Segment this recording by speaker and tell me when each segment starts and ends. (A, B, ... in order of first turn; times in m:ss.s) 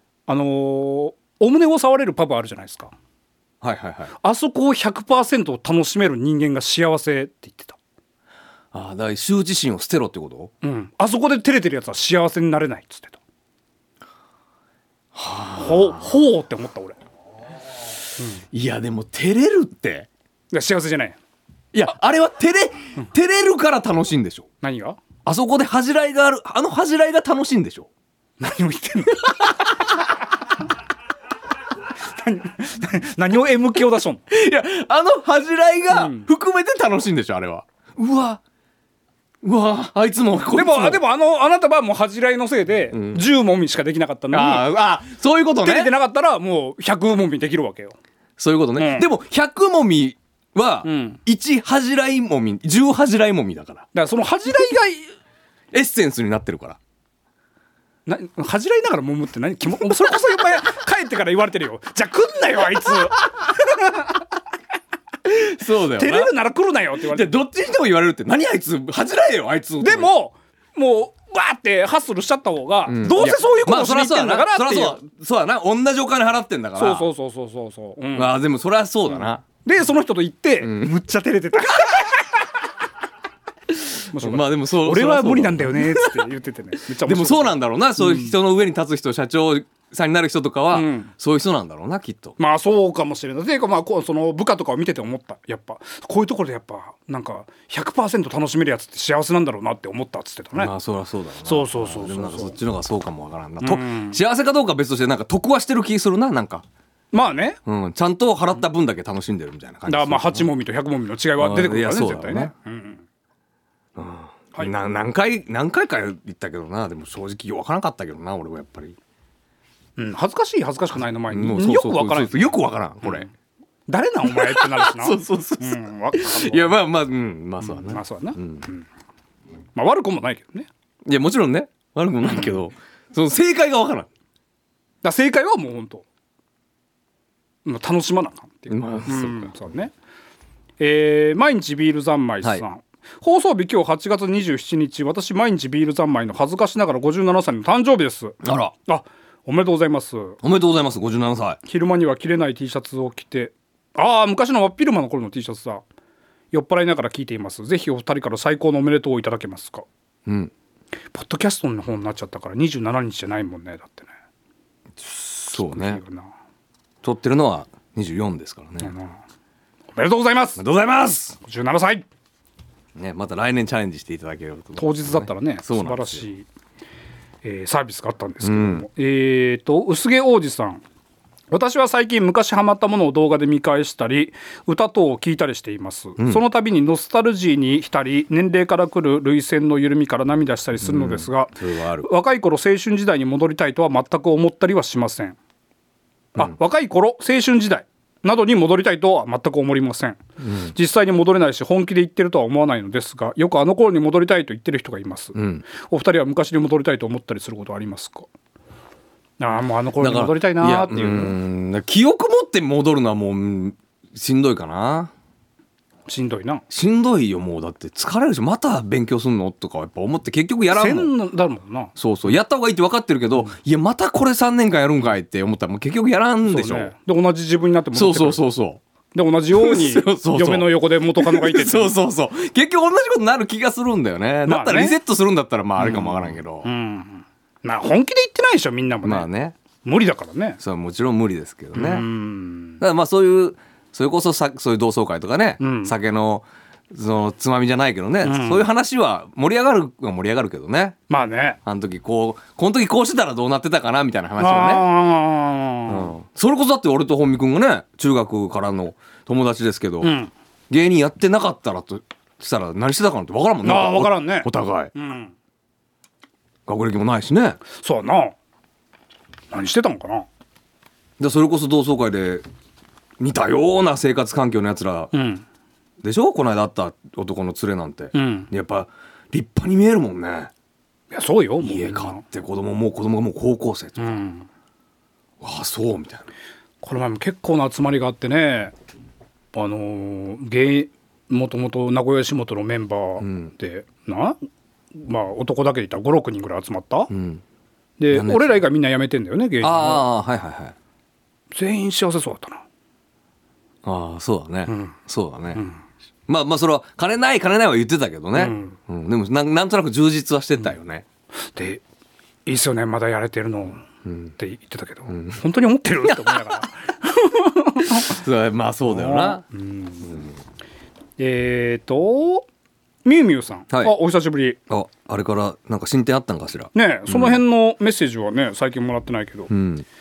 0:00.3-0:02.9 A
0:03.6-0:04.1 B
0:04.2-0:07.8 A
0:08.7-0:10.5 B
0:10.6-0:13.2 A
0:15.1-0:16.2 B
0:15.6-0:17.0 A
0:18.2-0:18.4 A
0:18.5-0:20.1 B
0:20.5-0:21.2 A
0:21.7-0:24.5 B
0:24.6-0:25.0 A
0:25.2-0:27.9 B
0:28.4-0:29.9 A
0:32.1-0:34.2 A
0:34.3-0:38.4 B
0:35.9-0:36.3 A
0:39.4-0:41.0 B
0:40.5-0:44.7 A
0:42.9-0:43.2 B
0:44.3-0:45.9 B
0:45.6-0:48.0 A
0:48.4-0:53.9 B
0:48.8-0:49.1 A
0:50.8-0:51.2 A
0:53.9-0:55.1 A
0:55.7-0:56.8 B
0:58.1-1:04.1 A
1:05.3-1:06.4 B
1:05.8-1:07.4 A
1:07.0-1:10.1 B
1:09.8-1:15.0 A
1:12.9-1:17.1 B
1:16.8-1:18.4 A
1:18.2-1:19.4 B
1:19.1-1:22.5 A
1:20.6-1:21.0 B
1:23.7-1:26.3 B
1:24.1-1:28.4 A
1:26.9-1:32.4 B
1:30.7-1:31.1 A
1:32.4-1:40.7 A
1:40.6-1:46.6 B
1:41.4-1:42.6 A
1:43.6-1:44.2 A
1:47.1-1:47.6 A
1:47.6-1:50.5 B
1:49.9-1:53.0 A
1:51.4-1:52.5 B
1:54.0-1:59.0 B
2:00.0-2:03.3 A
2:01.3-2:03.3 B
2:03.9-2:06.7 A
2:04.3-2:08.6 B
2:07.6-2:08.9 A
2:09.8-2:10.7 A
2:11.0-2:14.1 B
2:15.0-2:16.0 A
2:17.7-2:19.9 A
2:18.7-2:19.5 B
2:20.8-2:30.4 A
2:28.4-2:28.7 B
2:30.4-2:31.6 B
2:31.6-2:35.8 A
2:36.5-2:39.8 A
2:40.3-2:40.5 B
2:41.1-2:44.1 A
2:45.0-2:46.0 B
2:45.5-2:46.3 A
2:47.0-2:48.9 B
2:48.8-2:49.2 A
2:50.0-2:50.6 A
2:50.6-2:51.4 B
2:51.4-2:52.1 A
2:53.0-2:56.2 B
2:54.8-2:56.5 A
2:57.4-3:00.8 A
2:58.4-2:58.9 B
3:01.5-3:15.4 A
3:06.2-3:06.4 B
3:10.8-3:12.1 B
3:16.4-3:28.3 A
3:20.4-3:20.7 B
3:25.4-3:25.6 B
3:29.4-3:31.4 A
3:30.0-3:35.1 B
3:36.1-3:36.6 A
3:36.7-3:41.1 B
3:40.7-3:41.9 A
3:42.0-3:46.9 B
3:46.5-3:48.4 A
3:47.9-3:48.8 B
3:49.1-3:52.0 A
3:49.6-3:56.7 B
3:54.5-3:55.0 A
3:55.8-3:59.3 A
3:59.0-3:59.6 B
3:59.8-4:00.6 A
4:00.6-4:02.1 B
4:01.7-4:02.8 A
4:02.8-4:11.0 B
4:05.6-4:06.0 A
4:08.2-4:08.7 A
4:11.1-4:11.6 A
4:11.6-4:14.9 B
4:14.4-4:16.1 A
4:15.9-4:20.1 B
4:20.0-4:20.3 A
4:20.7-4:24.9 B
4:23.6-4:25.3 A
4:26.7-4:27.6 B
4:27.8-4:28.4 A
4:29.5-4:30.3 A
4:31.2-4:32.4 B
4:33.2-4:35.1 B
4:35.1-4:35.4 A
4:36.0-4:40.5 B
4:38.1-4:38.5 A
4:41.1-4:42.2 A
4:41.6-4:44.2 B
4:44.0-4:44.5 A
4:45.4-4:46.3 B
4:46.8-4:48.7 A
4:49.5-4:54.4 A
4:53.2-4:53.5 B
4:55.0-4:57.1 A
4:57.1-4:57.4 B
4:58.0-5:00.1 A
4:58.1-4:58.6 B
4:59.6-5:00.8 B
5:01.5-5:02.6 A
5:03.8-5:05.6 B
5:04.7-5:05.0 A
5:06.3-5:11.0 B
5:08.4-5:08.8 A
5:11.6-5:11.8 A
5:12.5-5:13.8 A
5:14.1-5:14.3 B
5:14.4-5:18.2 A
5:16.1-5:16.4 B
5:17.8-5:19.4 B
5:18.9-5:20.3 A
5:21.2-5:22.5 A
5:23.0-5:24.6 A
5:24.7-5:27.4 B
5:26.7-5:29.5 A
5:29.5-5:29.9 B